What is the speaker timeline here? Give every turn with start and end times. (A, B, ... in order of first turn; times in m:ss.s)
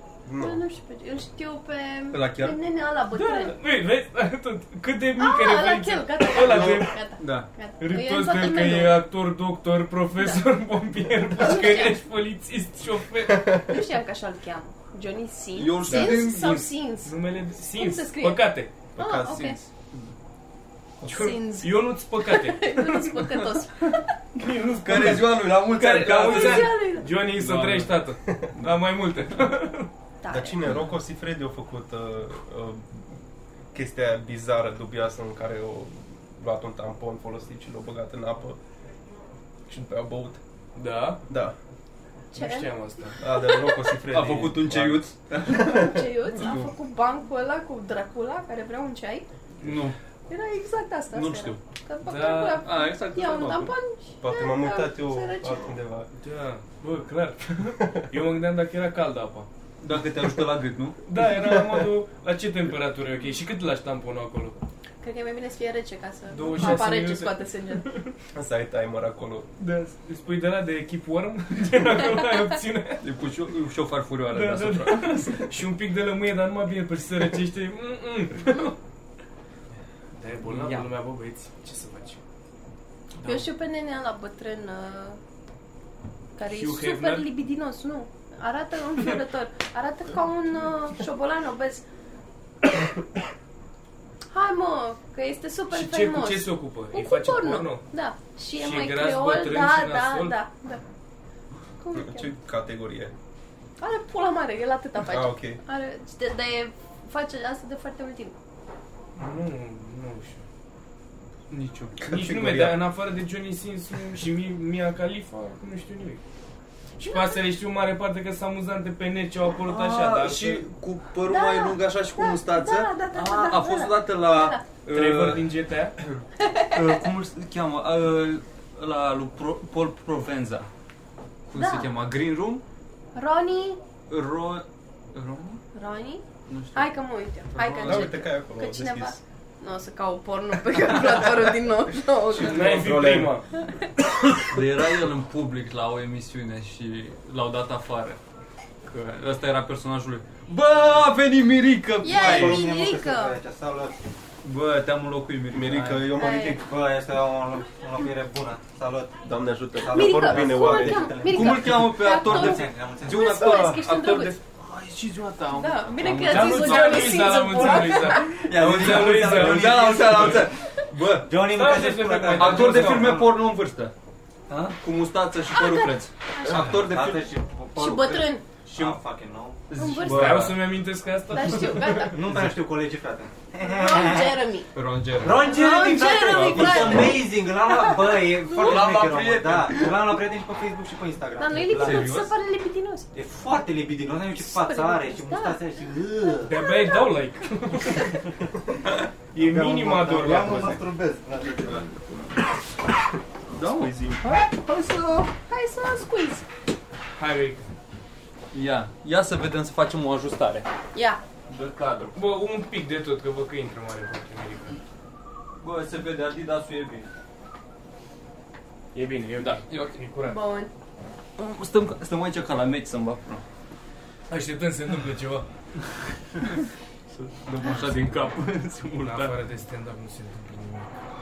0:00.2-0:00.6 A
0:00.4-0:03.6 B
0:02.1-0:02.6 C
0:03.1-0:07.0 D
0:05.2-0:09.0 B
0:07.2-0:07.5 C
0:07.8-0:13.5 D
0:10.2-0:10.4 B
0:11.3-0:12.0 B
0:13.5-0:18.4 B
0:15.5-0:16.7 C
0:15.9-0:18.7 D
0:19.0-0:19.6 A
0:19.0-0:19.6 B
0:19.3-0:20.1 C
0:21.0-0:23.5 D
0:21.0-0:24.1 B
0:24.3-0:29.9 D
0:24.8-0:27.9 C
0:26.2-0:27.1 B
0:30.2-0:30.6 B
0:30.3-0:33.2 A
0:33.7-0:38.6 A
0:39.7-0:40.4 A
0:40.8-0:41.2 D
0:41.3-0:41.6 A
0:42.3-0:43.2 D
0:42.3-0:43.7 B
0:43.2-0:46.6 A
0:44.1-0:45.9 C
0:45.6-0:49.2 B
0:49.6-0:50.0 C
0:50.3-0:55.7 B
0:51.1-0:51.6 C
0:52.0-0:52.6 D
0:52.2-0:53.7 C
0:54.2-0:56.1 A
0:56.2-0:59.5 D
0:59.8-1:01.0 C
1:01.0-1:04.6 D
1:01.4-1:01.9 A
1:05.0-1:07.9 B
1:06.3-1:08.1 D
1:08.3-1:09.5 A
1:09.6-1:13.0 D
1:13.0-1:15.5 C
1:14.3-1:18.7 D
1:20.2-1:22.2 D
1:20.5-1:20.8 C
1:23.2-1:25.2 B
1:26.4-1:31.8 B
1:26.5-1:27.3 D
1:34.3-1:40.8 B
1:35.7-1:37.8 D
1:38.6-1:40.4 D
1:41.8-1:42.3 B
1:41.9-1:43.1 A
1:43.8-1:48.3 B
1:45.0-1:45.6 A
1:49.2-1:50.4 D
1:51.5-1:51.9 C
1:52.0-1:52.8 A
1:52.0-1:56.2 D
1:57.0-1:57.4 B
1:57.0-2:00.6 D
1:59.6-2:05.5 C
2:01.3-2:04.6 B
2:04.9-2:05.9 D
2:06.4-2:06.8 B
2:06.7-2:10.7 C
2:11.5-2:12.6 C
2:11.5-2:11.9 B
2:13.1-2:13.8 B
2:14.1-2:15.6 C
2:15.7-2:22.9 B
2:16.5-2:16.9 C
2:17.5-2:18.1 C
2:17.8-2:19.2 A
2:22.3-2:23.4 A
2:22.4-2:23.4 D
2:24.4-2:28.2 C
2:28.8-2:32.6 C
2:32.0-2:33.4 B
2:32.0-2:34.0 E
2:34.4-2:36.1 C
2:35.5-2:36.6 A
2:36.1-2:36.6 B
2:36.4-2:39.2 E
2:39.2-2:41.2 A
2:39.8-2:43.8 E
2:39.9-2:44.4 B
2:41.2-2:47.6 C
2:45.5-2:48.4 B
2:46.2-2:50.4 D
2:47.6-2:50.6 E
2:48.6-2:51.3 C
2:51.1-2:53.4 E
2:51.5-2:53.1 D
2:52.3-2:53.9 C
2:54.5-2:54.8 E
2:54.8-2:57.2 C
2:55.5-2:56.7 B
2:56.4-2:59.6 E
2:57.8-2:58.4 B
2:58.7-2:59.0 C
2:59.7-3:00.6 C
2:59.8-3:00.5 B
3:00.0-3:02.1 D
3:01.3-3:02.2 B
3:02.0-3:04.4 E
3:03.6-3:04.7 B
3:04.7-3:07.2 C
3:05.2-3:12.3 E
3:05.4-3:08.9 B
3:08.5-3:10.2 C
3:11.4-3:13.1 B
3:11.6-3:12.3 C
3:13.1-3:16.6 E
3:14.4-3:15.6 B
3:16.4-3:18.3 D
3:16.6-3:17.1 B
3:19.3-3:20.8 D
3:19.4-3:21.9 E
3:23.5-3:25.3 C
3:25.5-3:26.4 B
3:27.2-3:27.6 D
3:28.5-3:30.7 C
3:30.9-3:31.2 B
3:31.5-3:32.1 C
3:32.1-3:34.8 D
3:35.6-3:37.1 C
3:38.9-3:40.4 D
3:39.4-3:40.0 C
3:40.2-3:40.7 B
3:41.4-3:43.4 C
3:44.3-3:45.5 D
3:47.1-3:49.3 C
3:49.0-3:50.9 D